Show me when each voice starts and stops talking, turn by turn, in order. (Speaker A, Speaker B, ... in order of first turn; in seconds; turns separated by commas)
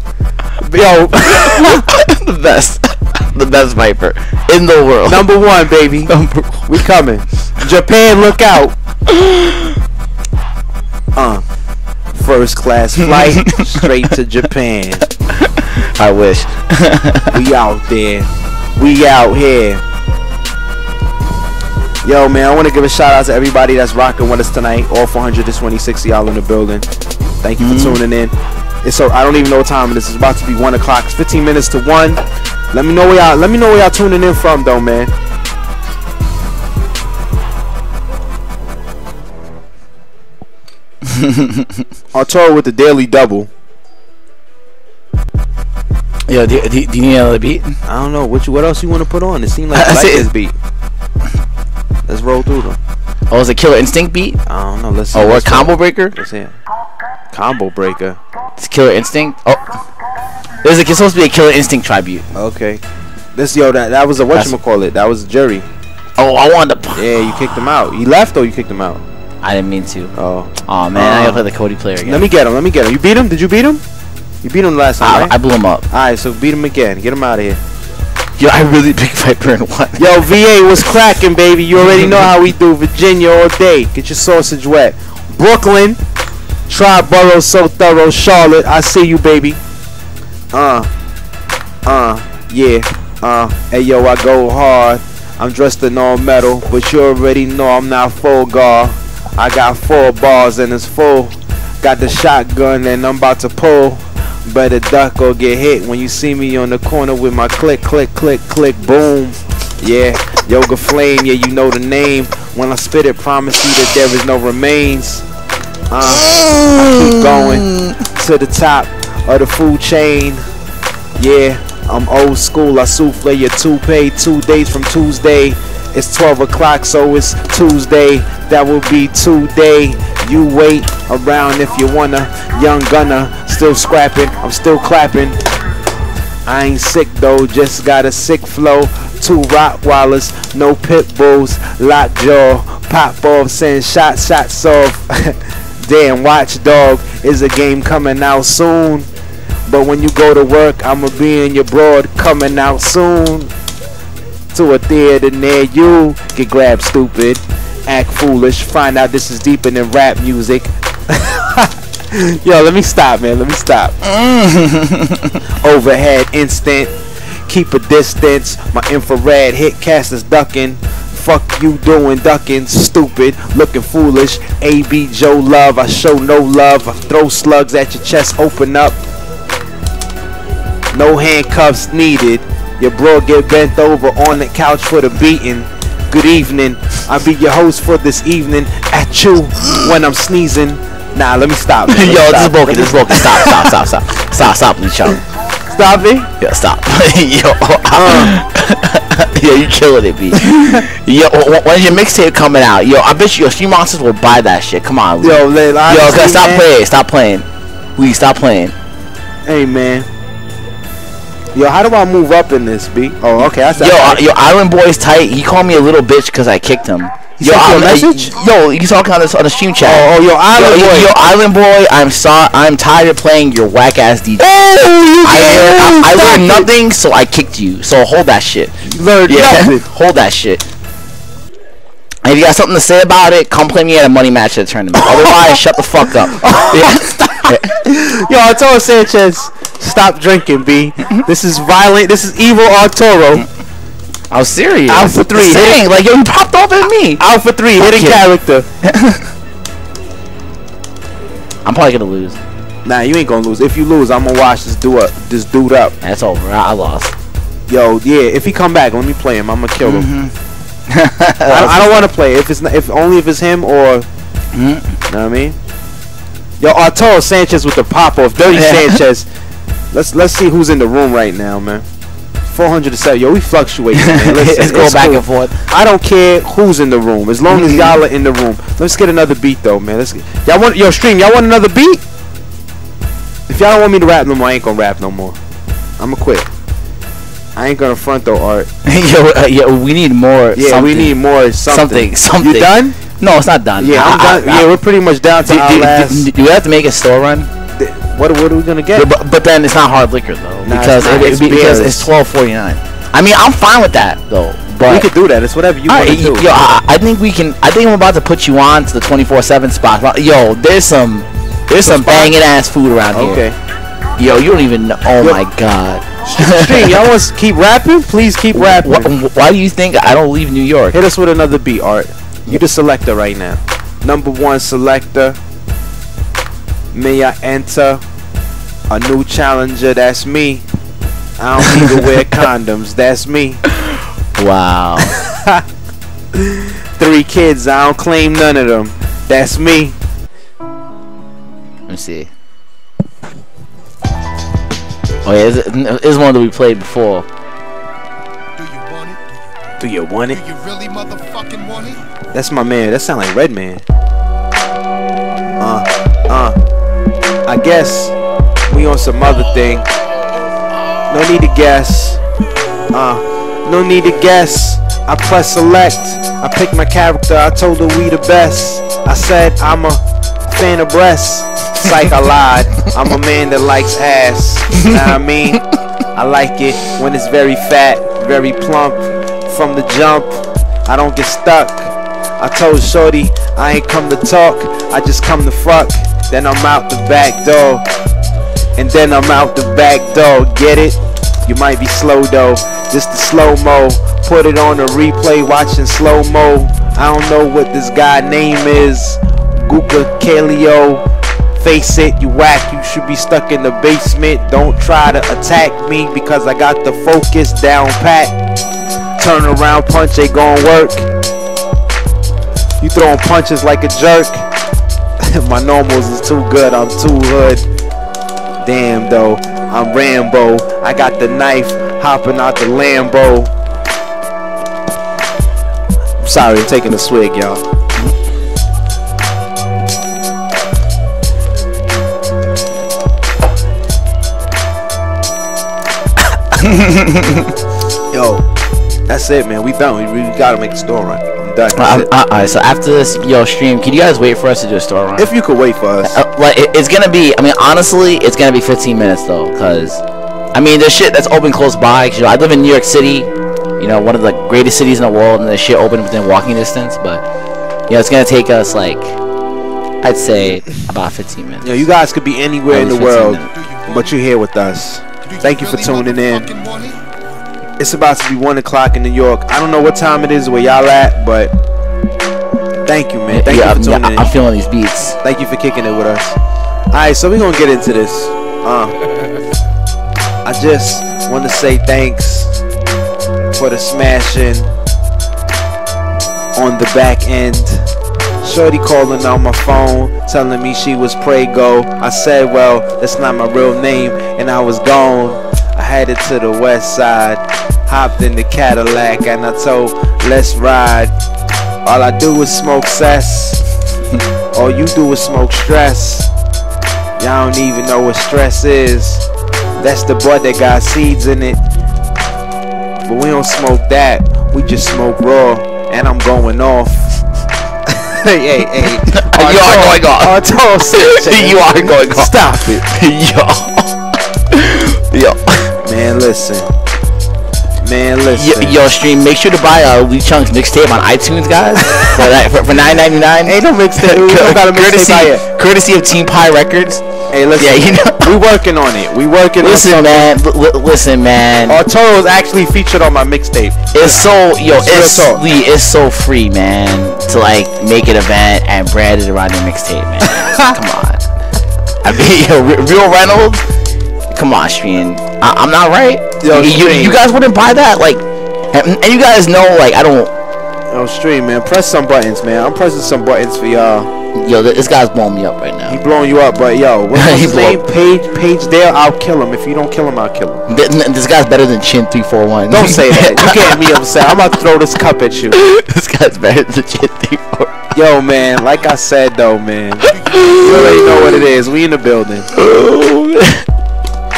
Speaker A: 0.6-1.9, Speaker B: 1.2-5.3, Speaker A: 5.1-6.1, Speaker B: 6.1-6.8, Speaker A: 6.7-8.8, Speaker B: 9.1-9.8, Speaker A: 11.2-11.4, Speaker A: 12.1-15.1, Speaker B: 13.1-13.6, Speaker B: 15.3-17.4, Speaker A: 17.3-19.8, Speaker A: 22.0-26.9, Speaker A: 27.4-35.1, Speaker B: 27.6-28.0, Speaker B: 41.0-41.8, Speaker A: 42.1-43.5, Speaker B: 46.3-47.8, Speaker A: 47.9-50.5, Speaker B: 49.7-50.2, Speaker A: 52.1-52.8, Speaker B: 53.3-54.4, Speaker A: 54.5-56.5, Speaker B: 55.1-56.1, Speaker A: 57.3-58.2, Speaker B: 58.6-59.7, Speaker B: 60.6-62.2, Speaker A: 62.3-62.8, Speaker A: 63.3-65.7, Speaker B: 66.2-67.0, Speaker A: 67.0-69.0, Speaker B: 69.4-70.1, Speaker A: 70.1-71.5, Speaker B: 70.7-72.2, Speaker A: 72.0-73.8, Speaker A: 74.4-75.3, Speaker B: 75.0-75.8, Speaker A: 75.9-77.6, Speaker B: 78.4-80.1, Speaker A: 80.0-86.0, Speaker B: 81.9-82.3, Speaker A: 86.7-89.6, Speaker A: 90.5-90.9, Speaker A: 91.8-115.2, Speaker A: 115.9-120.4, Speaker B: 116.0-118.0, Speaker A: 121.2-135.4, Speaker A: 136.5-149.1, Speaker A: 149.7-153.5, Speaker A: 154.5-164.0, Speaker B: 164.0-165.4, Speaker A: 165.6-166.9, Speaker A: 167.4-179.0, Speaker A: 180.9-193.7, Speaker B: 191.9-195.2, Speaker A: 195.7-196.3, Speaker B: 196.4-207.4, Speaker A: 197.9-198.4, Speaker A: 200.4-200.8, Speaker A: 205.2-206.7, Speaker B: 208.0-208.7, Speaker A: 209.4-210.1, Speaker A: 211.5-214.2, Speaker B: 213.8-224.6, Speaker A: 217.4-218.3, Speaker A: 219.8-221.1, Speaker A: 224.4-226.7, Speaker B: 225.2-228.7, Speaker A: 228.8-229.8, Speaker B: 229.2-230.6, Speaker B: 232.2-237.7, Speaker A: 235.0-243.4, Speaker B: 244.3-247.2, Speaker A: 244.9-245.8, Speaker A: 247.2-248.7, Speaker B: 247.8-248.2, Speaker B: 248.8-249.2, Speaker B: 251.6-252.4, Speaker A: 252.8-256.0, Speaker B: 256.0-257.1, Speaker A: 257.7-260.1, Speaker B: 259.8-260.3, Speaker B: 260.9-262.0, Speaker A: 261.4-264.1, Speaker B: 264.5-265.0, Speaker A: 265.1-265.6, Speaker A: 266.6-269.3, Speaker B: 268.5-269.0, Speaker A: 269.9-271.8, Speaker A: 272.5-282.0, Speaker B: 274.0-275.6, Speaker B: 277.5-278.0, Speaker A: 283.5-285.4, Speaker A: 286.0-286.5, Speaker A: 287.6-288.7, Speaker B: 288.8-294.7, Speaker A: 290.5-293.0, Speaker A: 293.8-296.3, Speaker B: 295.4-297.5, Speaker A: 297.7-299.1, Speaker B: 298.9-305.1, Speaker A: 300.6-302.1, Speaker A: 304.9-306.5, Speaker B: 305.9-313.4, Speaker A: 311.8-312.4, Speaker A: 313.1-313.6, Speaker B: 314.2-317.1, Speaker A: 316.2-319.1, Speaker B: 318.5-321.0, Speaker A: 320.9-325.4, Speaker A: 326.9-328.0, Speaker A: 328.9-330.6, Speaker A: 331.4-333.6, Speaker B: 334.4-335.1, Speaker A: 335.0-335.6, Speaker A: 336.3-340.0, Speaker B: 341.9-342.3, Speaker B: 345.2-347.3, Speaker C: 348.7-349.1, Speaker A: 349.8-350.5, Speaker C: 350.5-352.0, Speaker A: 352.3-353.8, Speaker A: 355.6-356.6, Speaker A: 357.4-358.1, Speaker A: 358.7-359.9, Speaker A: 361.1-362.2, Speaker A: 362.9-375.6, Speaker A: 376.1-387.8, Speaker A: 388.8-401.0, Speaker A: 401.6-408.3, Speaker A: 409.2-411.1, Speaker A: 412.8-414.5, Speaker A: 415.2-417.6, Speaker A: 418.6-423.5, Speaker A: 426.2-427.6, Speaker B: 436.6-437.5, Speaker A: 438.1-438.4, Speaker A: 439.1-442.1, Speaker B: 441.7-445.3, Speaker A: 445.2-446.2, Speaker B: 446.0-450.0, Speaker B: 450.5-457.2, Speaker B: 457.9-459.2, Speaker B: 460.0-461.8, Speaker A: 461.6-466.7, Speaker B: 462.7-463.5, Speaker C: 466.6-466.9, Speaker A: 467.8-471.5, Speaker A: 472.9-474.3, Speaker B: 473.3-475.2, Speaker A: 475.2-476.4, Speaker A: 476.9-478.9, Speaker A: 480.4-482.5, Speaker A: 483.5-484.7, Speaker A: 486.6-487.9, Speaker A: 488.4-501.1, Speaker A: 501.8-503.6, Speaker A: 504.5-506.3, Speaker A: 507.2-509.2, Speaker A: 509.8-511.6, Speaker A: 513.0-517.1, Speaker A: 517.9-522.9, Speaker B: 519.1-524.0, Speaker B: 524.5-525.7, Speaker A: 525.8-526.7, Speaker A: 527.8-528.9, Speaker B: 528.3-537.0, Speaker A: 533.4-535.4, Speaker A: 537.3-540.3, Speaker B: 537.5-538.4, Speaker B: 539.6-541.8, Speaker A: 541.7-545.4, Speaker B: 543.9-551.2, Speaker A: 550.3-550.8, Speaker B: 552.0-553.6, Speaker B: 554.3-560.3, Speaker A: 556.4-557.2, Speaker A: 560.9-564.1, Speaker B: 564.3-566.0, Speaker A: 565.9-570.6, Speaker B: 567.1-567.8, Speaker B: 570.7-574.0, Speaker A: 572.7-575.6, Speaker B: 575.5-577.9, Speaker A: 577.9-582.5, Speaker B: 580.1-581.3, Speaker B: 582.5-583.6